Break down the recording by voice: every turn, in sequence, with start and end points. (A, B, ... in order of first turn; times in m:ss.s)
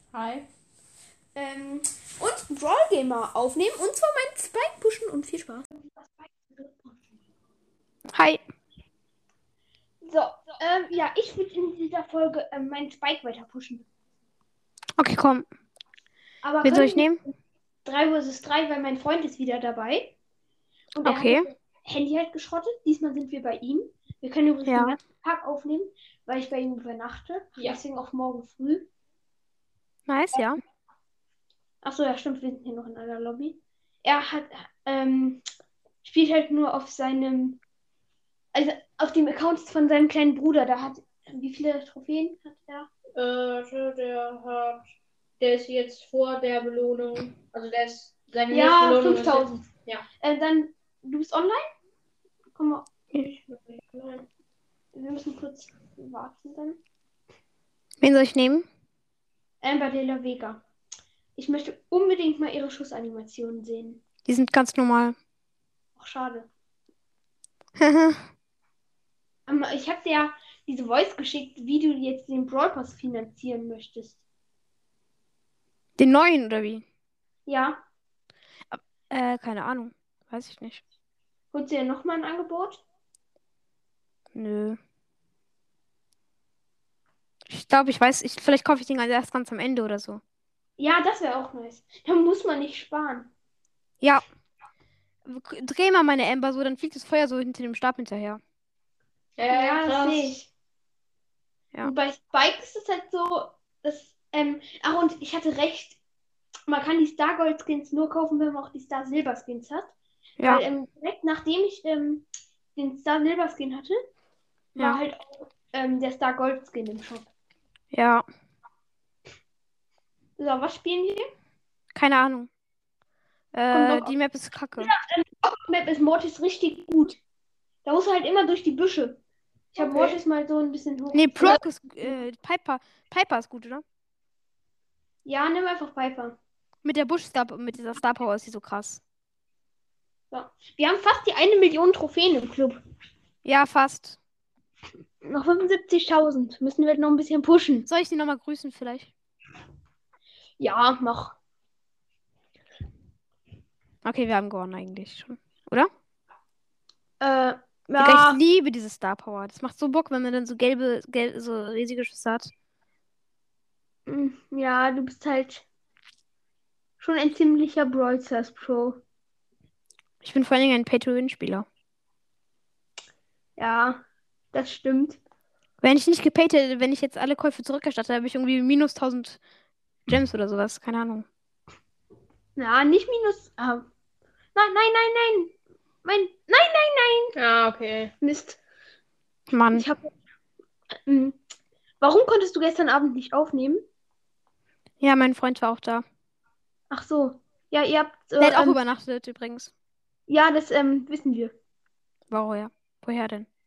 0:00.1-0:00.5 A
0:01.3-0:06.8 B
0:08.1-0:08.4 C
0:10.0-0:13.9 B
0:15.0-0:15.4 C
0:16.4-0:17.1 B
0:16.6-0:17.2 C
0:17.8-0:20.1 B
0:20.9-0:28.9 B
0:21.0-0:21.5 C
0:24.6-0:24.9 C
0:30.1-0:30.6 C
0:31.8-0:35.4 B
0:36.0-0:37.6 B
0:38.5-0:42.9 B
0:43.1-0:50.0 A
0:48.5-0:49.6 B
0:50.2-0:51.6 B
0:52.6-0:52.9 B
0:53.1-0:54.2 A
0:54.9-0:56.8 B
0:58.0-0:58.6 C
0:59.6-1:00.6 B
1:01.4-1:04.0 B
1:04.2-1:05.1 C
1:06.0-1:06.5 B
1:07.8-1:08.2 C
1:09.5-1:14.2 B
1:16.0-1:16.8 C
1:17.5-1:17.8 B
1:18.7-1:20.8 C
1:21.5-1:22.8 B
1:24.3-1:24.8 C
1:27.5-1:30.2 C
1:30.8-1:33.3 B
1:35.2-1:38.4 C
1:39.4-1:40.4 A
1:39.5-1:40.5 B
1:41.8-1:46.0 B
1:46.7-1:49.9 B
1:50.4-1:50.6 C
1:50.4-1:54.0 B
1:54.7-1:57.3 B
1:57.9-1:58.2 C
2:00.4-2:01.3 B
2:01.9-2:02.5 C
2:03.5-2:04.9 C
2:03.7-2:04.1 B
2:04.8-2:07.2 B
2:07.8-2:09.2 B
2:09.7-2:12.1 B
2:09.7-2:10.2 A
2:11.1-2:13.8 C
2:15.2-2:16.4 B
2:16.8-2:19.0 C
2:20.3-2:22.8 B
2:23.4-2:24.2 C
2:25.2-2:27.9 B
2:27.9-2:29.1 C
2:30.6-2:31.3 B
2:34.0-2:35.9 C
2:37.2-2:38.4 B
2:38.0-2:42.5 C
2:44.1-2:45.6 B
2:47.0-2:49.0 B
2:50.2-2:51.6 C
2:53.6-2:54.0 B
2:54.5-2:55.2 B
2:55.8-2:59.4 C
3:00.1-3:01.2 C
3:02.6-3:03.8 B
3:04.5-3:05.5 B
3:06.0-3:07.3 B
3:07.3-3:08.1 A
3:08.2-3:08.6 B
3:09.5-3:09.8 C
3:09.7-3:10.1 B
3:11.0-3:11.4 B
3:12.0-3:13.8 B
3:15.0-3:16.0 C
3:16.9-3:18.8 B
3:18.4-3:19.7 C
3:20.3-3:21.5 B
3:22.3-3:23.5 C